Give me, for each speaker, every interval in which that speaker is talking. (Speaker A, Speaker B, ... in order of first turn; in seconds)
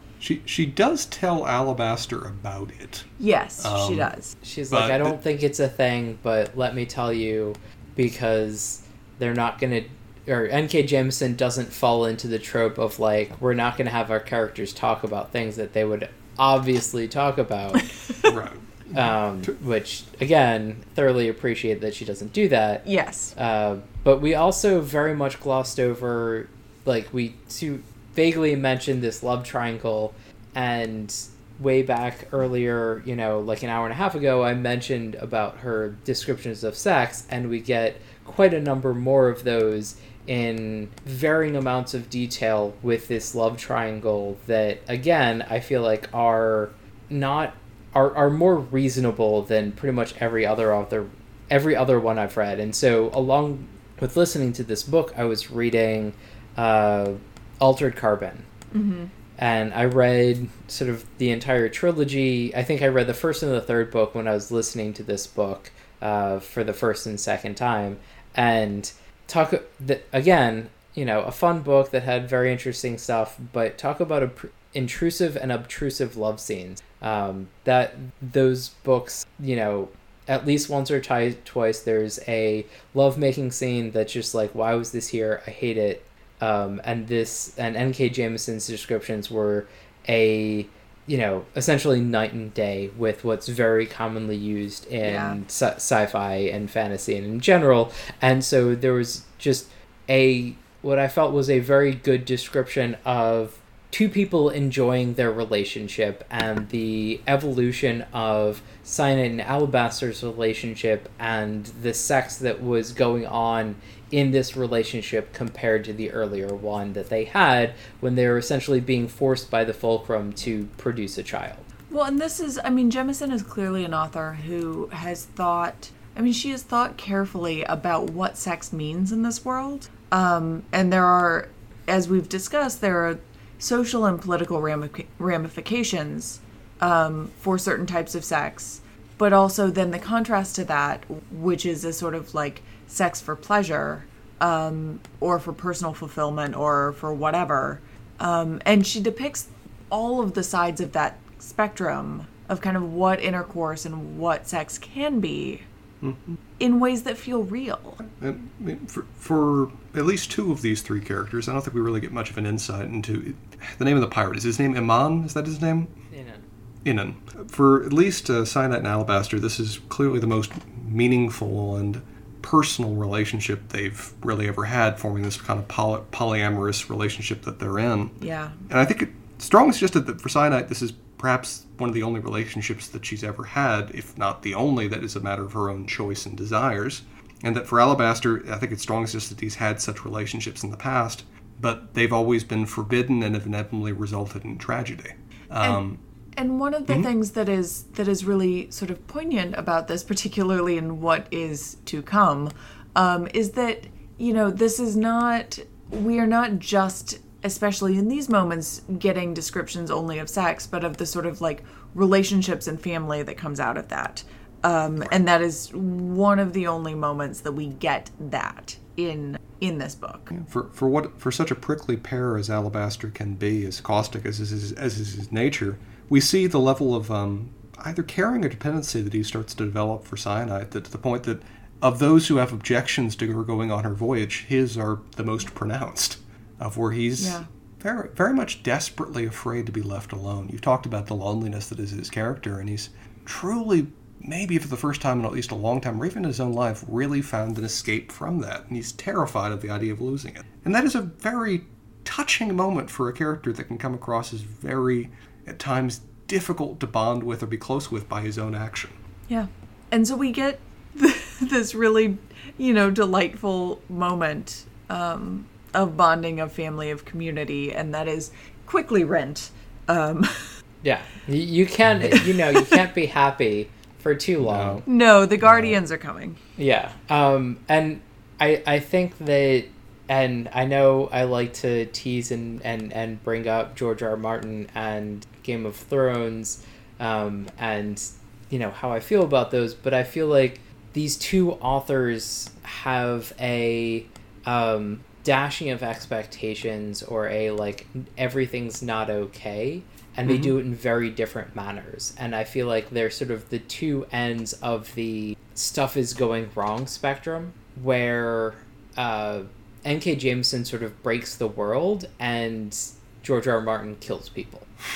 Speaker A: 0.2-3.1, 3.6-4.1, 4.7-5.2, 18.2-19.6, 156.0-156.4, 158.0-165.9, 166.8-178.2, 178.7-196.0, 220.3-259.0, 271.9-272.1, 274.4-274.8, 275.4-275.8, 300.3-300.6
Speaker B: 3.2-4.4, 18.1-18.3, 22.9-23.3, 58.7-59.1, 95.0-95.4, 121.9-155.7, 156.6-158.0, 178.2-178.6, 196.4-220.3, 237.2-237.5, 259.3-270.5, 272.2-272.8, 274.9-276.4
Speaker C: 4.4-17.9, 18.9-58.5, 59.4-121.7, 166.1-166.4, 270.8-274.9, 276.6-314.7